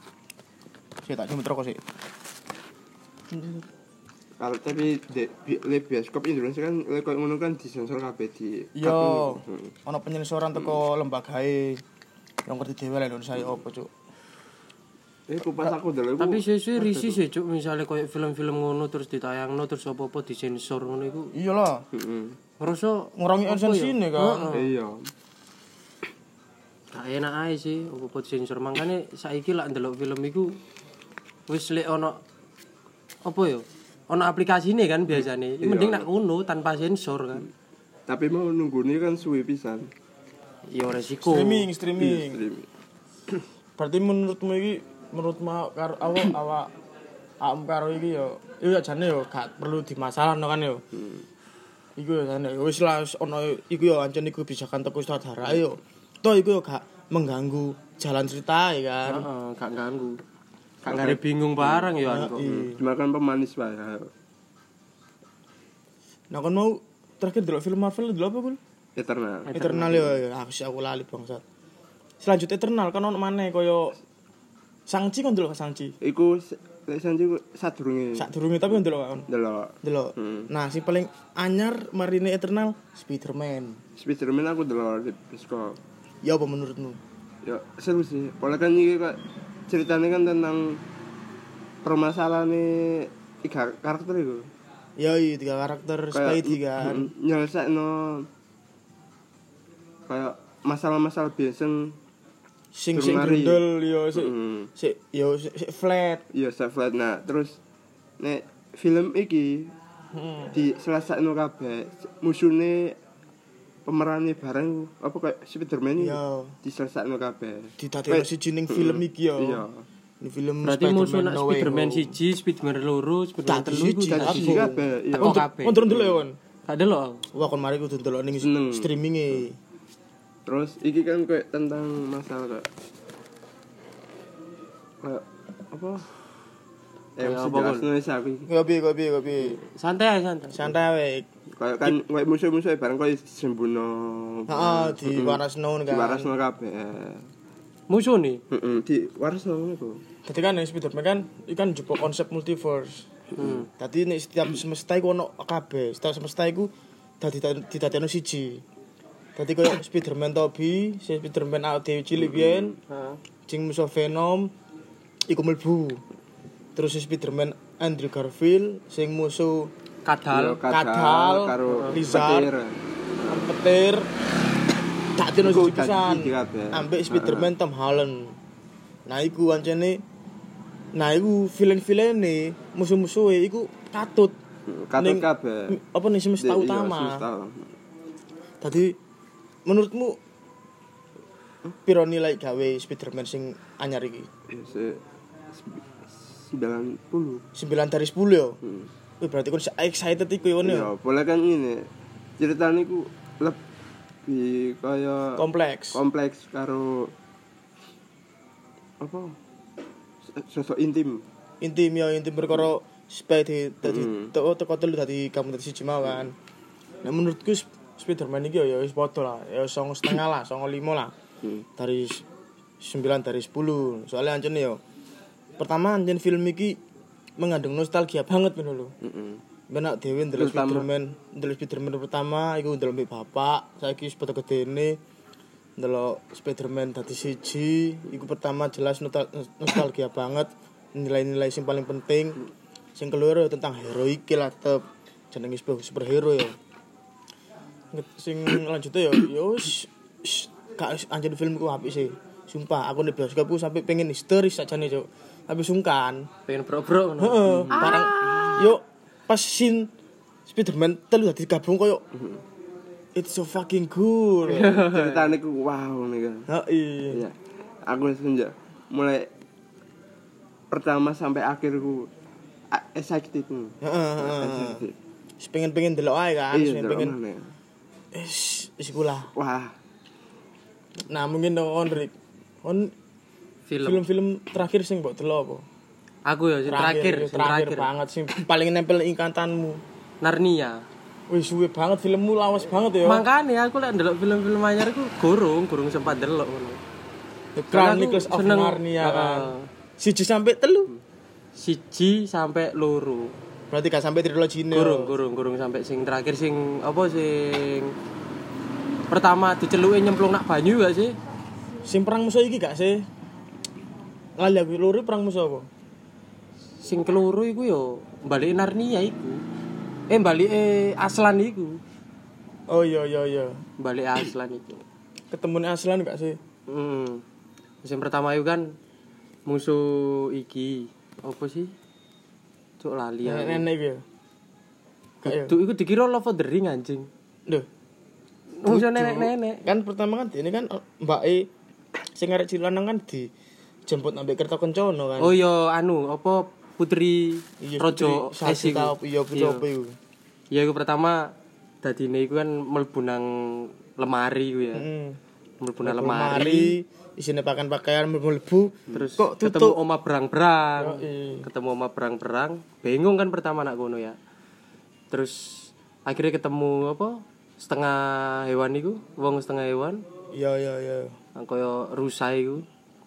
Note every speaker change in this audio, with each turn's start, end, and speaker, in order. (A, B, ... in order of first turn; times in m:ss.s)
0:01.0-0:01.8 A
0:03.3-0:03.6 A
0:04.4-0:09.7 B
0:08.8-0:11.8 A
0:12.5-0:13.9 A
0:15.3-0:17.2 B
0:16.2-0:21.3 C
0:21.3-0:21.8 A
0:21.9-0:22.4 B
0:22.6-0:24.7 C
0:23.2-0:24.5 A
0:24.5-0:25.1 B
0:26.9-0:30.6 C
0:31.5-0:32.2 C
0:33.2-0:37.5 C
0:35.6-0:36.1 B
0:38.1-0:39.9 B
0:40.7-0:41.7 C
0:41.2-0:42.4 A
0:42.0-0:42.7 B
0:43.8-0:46.7 A
0:47.4-0:50.8 A
0:50.9-0:51.3 B
0:52.0-0:59.3 A
0:59.1-1:00.2 C
1:00.8-1:02.6 C
1:00.9-1:04.1 B
1:02.0-1:02.8 A
1:06.3-1:08.6 A
1:09.0-1:10.0 B
1:09.5-1:10.0 C
1:09.5-1:11.4 A
1:12.2-1:14.0 A
1:14.9-1:15.9 A
1:16.0-1:18.3 B
1:18.2-1:19.3 A
1:19.3-1:20.5 B
1:19.8-1:23.8 A
1:24.0-1:25.8 B
1:26.2-1:27.0 A
1:27.4-1:30.8 B
1:31.8-1:34.4 B
1:35.0-1:37.1 A
1:36.1-1:38.3 B
1:40.1-1:42.0 B
1:42.8-1:46.2 A
1:42.9-1:44.7 B
1:46.3-1:47.6 B
1:48.2-1:49.7 B
1:50.1-1:50.6 A
1:50.5-1:53.0 B
1:53.9-1:59.8 B
1:56.0-1:56.6 A
1:57.8-1:59.7 A
2:00.2-2:02.2 A
2:00.6-2:05.8 C
2:03.4-2:06.4 A
2:04.1-2:06.2 B
2:06.7-2:07.2 C
2:07.3-2:09.6 A
2:08.4-2:08.9 B
2:10.5-2:12.7 B
2:15.0-2:16.1 B
2:17.2-2:18.5 B
2:17.2-2:17.9 C
2:18.5-2:19.6 A
2:19.4-2:20.7 C
2:20.5-2:21.3 A
2:21.6-2:27.2 B
2:24.5-2:26.3 A
2:27.9-2:28.4 C
2:28.5-2:30.0 B
2:30.3-2:33.1 A
2:33.4-2:33.6 B
2:33.4-2:33.7 C
2:33.7-2:36.7 A
2:37.2-2:38.6 A
2:39.4-2:42.8 A
2:42.2-2:42.8 B
2:42.9-2:43.2 C
2:43.5-2:44.5 A
2:45.3-2:46.0 A
2:46.8-2:49.7 A
2:50.1-2:50.6 C
2:50.3-2:53.5 B
2:50.7-2:52.5 A
2:51.7-2:52.0 C
2:53.3-2:54.1 A
2:55.2-2:58.4 A
2:55.4-2:57.5 B
2:59.1-3:00.0 A
3:01.0-3:04.4 A
3:04.7-3:05.8 B
3:05.0-3:07.3 A
3:06.4-3:07.7 B
3:08.6-3:09.0 A
3:09.7-3:10.2 A
3:11.8-3:14.3 A
3:14.5-3:15.0 B
3:15.5-3:17.4 B
3:17.6-3:18.6 A
3:18.6-3:18.9 B
3:19.2-3:20.9 A
3:20.6-3:21.9 B
3:22.4-3:23.6 B
3:24.3-3:25.4 B
3:25.4-3:26.0 A
3:25.9-3:27.1 B
3:29.0-3:29.4 B
3:30.2-3:31.2 B
3:31.6-3:36.4 A
3:33.8-3:34.3 B
3:37.0-3:41.1 A
3:41.8-3:42.2 A
3:42.8-3:44.8 A
3:45.6-3:46.8 A
3:47.4-3:48.9 A
3:49.0-3:49.4 B
3:49.7-3:55.0 A
3:50.4-3:50.9 B
3:55.8-4:02.4 A
4:03.0-4:06.6 A
4:07.9-4:16.3 A
4:16.5-4:18.7 C
4:17.2-4:19.9 A
4:17.5-4:18.6 B
4:20.5-4:22.0 A
4:22.2-4:22.4 B
4:23.2-4:24.8 A
4:24.4-4:25.3 C
4:24.8-4:26.5 B
4:26.5-4:27.2 A
4:27.1-4:29.3 B
4:30.7-4:32.1 B
4:32.7-4:35.0 B
4:33.8-4:34.9 A
4:35.4-4:37.2 A
4:36.5-4:37.5 B
4:38.1-4:39.3 A
4:39.4-4:39.7 B
4:41.1-4:42.9 A
4:43.7-4:44.0 C
4:43.8-4:45.6 A
4:46.3-4:47.9 C
4:46.7-4:49.8 A
4:50.2-4:50.8 C
4:51.3-4:53.2 A
4:53.0-4:56.8 C
4:57.6-5:00.9 A
4:57.7-4:59.7 C
5:01.6-5:03.3 C
5:03.7-5:05.2 A
5:04.7-5:07.9 C
5:09.1-5:11.2 C
5:11.8-5:13.1 A
5:14.4-5:15.7 A
5:16.8-5:19.4 C
5:20.1-5:21.8 C
5:22.7-5:23.6 A
5:23.8-5:24.8 C
5:25.3-5:26.4 A
5:26.7-5:27.2 C
5:27.8-5:28.8 C
5:29.5-5:31.7 C
5:32.8-5:33.7 C
5:33.2-5:34.0 A
5:35.2-5:35.6 A
5:35.2-5:37.1 C
5:38.6-5:39.6 C
5:38.6-5:41.5 A
5:42.2-5:43.3 A
5:43.9-5:45.4 A
5:45.2-5:49.6 C
5:47.6-5:50.0 A
5:50.5-5:54.9 C
5:54.7-5:55.2 A
5:55.6-5:56.8 C
5:55.8-5:59.8 A
5:58.9-6:04.2 C
6:00.8-6:01.5 A
6:05.1-6:10.0 C
6:10.3-6:11.2 A
6:11.4-6:12.6 C